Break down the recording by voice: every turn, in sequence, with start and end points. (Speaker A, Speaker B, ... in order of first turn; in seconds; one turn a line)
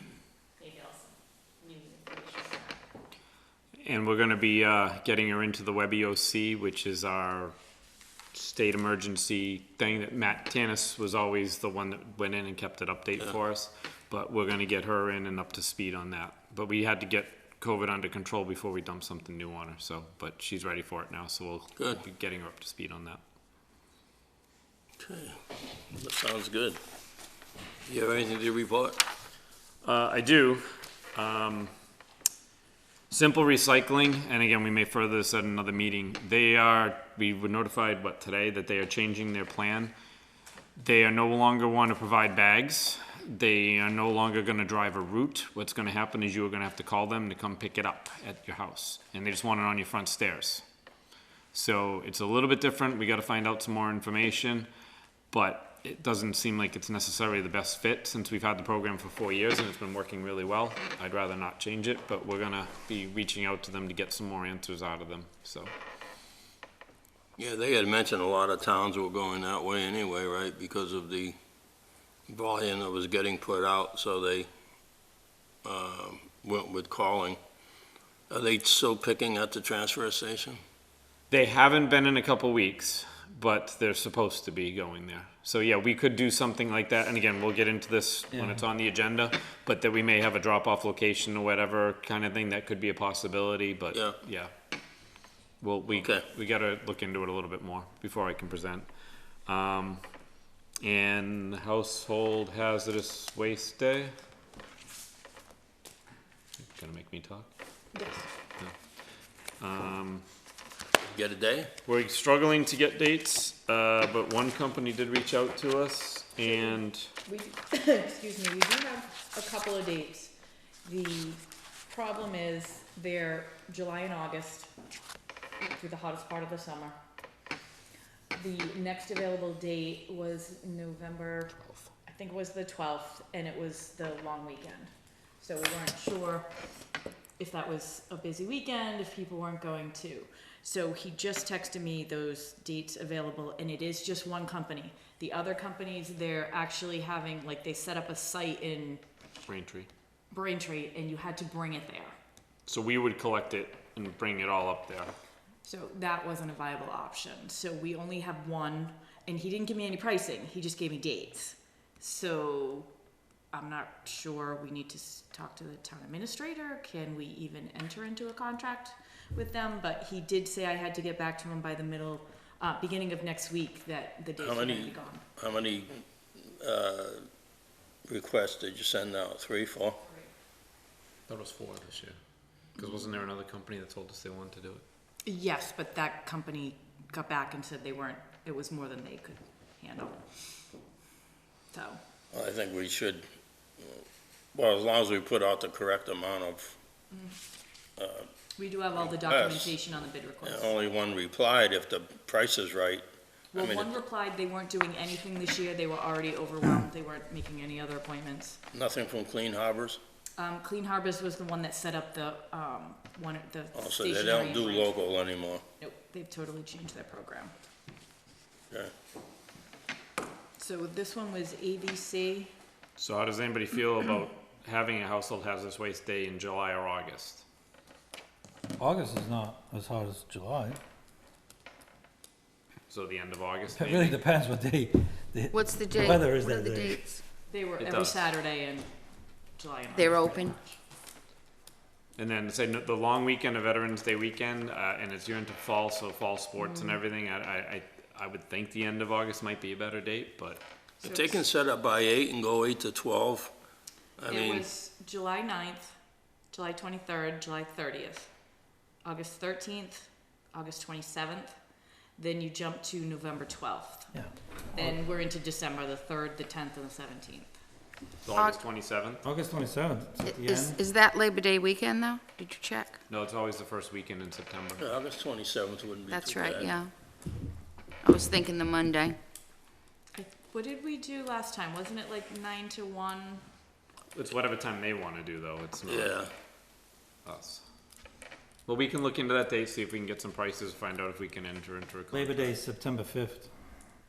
Speaker A: 0.6-2.7
Speaker B: 3.8-7.5
Speaker B: 8.3-23.2
Speaker C: 25.0-26.8
Speaker C: 27.9-29.0
Speaker B: 29.8-31.7
Speaker B: 33.1-39.9
Speaker B: 40.8-50.6
Speaker B: 51.5-54.7
Speaker B: 55.3-65.7
Speaker C: 67.4-71.3
Speaker C: 72.3-74.5
Speaker C: 75.6-77.4
Speaker C: 78.3-80.6
Speaker B: 81.3-94.5
Speaker D: 88.3-88.6
Speaker B: 95.6-98.9
Speaker C: 95.9-96.2
Speaker B: 99.5-100.0
Speaker B: 100.8-104.1
Speaker B: 106.6-107.5
Speaker A: 107.9-108.3
Speaker B: 109.6-110.2
Speaker C: 111.1-111.7
Speaker B: 111.8-117.1
Speaker A: 116.4-124.7
Speaker A: 125.6-127.0
Speaker A: 128.3-136.5
Speaker A: 137.4-149.0
Speaker B: 149.5-149.9
Speaker A: 150.3-152.1
Speaker B: 152.7-155.1
Speaker A: 155.6-162.9
Speaker A: 163.5-175.2
Speaker C: 174.4-177.3
Speaker C: 178.1-180.0
Speaker B: 181.3-182.2
Speaker B: 182.8-184.8
Speaker A: 185.2-190.2
Speaker A: 191.7-192.0
Speaker C: 192.3-193.2
Speaker C: 193.8-196.8
Speaker A: 197.1-197.4
Speaker C: 198.0-198.3
Speaker A: 198.6-200.7
Speaker C: 199.2-199.8
Speaker C: 200.4-203.0
Speaker A: 203.5-208.6
Speaker C: 203.5-203.9
Speaker C: 208.7-210.0
Speaker A: 210.4-214.9
Speaker C: 213.7-215.6
Speaker A: 215.8-217.5
Speaker A: 220.6-222.5
Speaker B: 223.0-227.4
Speaker D: 228.8-230.8
Speaker B: 232.9-234.2
Speaker D: 233.8-237.2
Speaker E: 235.5-237.0
Speaker A: 237.5-238.9
Speaker B: 237.8-238.2
Speaker A: 239.6-240.8
Speaker E: 239.9-240.5
Speaker B: 242.2-250.6
Speaker A: 251.0-251.3
Speaker C: 251.0-253.5
Speaker C: 254.2-254.7
Speaker A: 254.3-255.9
Speaker A: 256.5-258.3
Speaker A: 259.0-261.5
Speaker A: 262.2-264.1
Speaker D: 264.1-264.9
Speaker A: 264.7-267.5
Speaker B: 268.2-269.2
Speaker D: 269.2-270.8
Speaker E: 270.3-273.0
Speaker B: 273.1-274.9
Speaker C: 274.8-276.7
Speaker E: 276.1-276.9
Speaker E: 278.0-279.2
Speaker A: 280.1-283.4
Speaker B: 284.1-286.2
Speaker C: 285.9-286.3
Speaker B: 287.2-287.6
Speaker B: 288.6-292.6
Speaker D: 292.1-293.6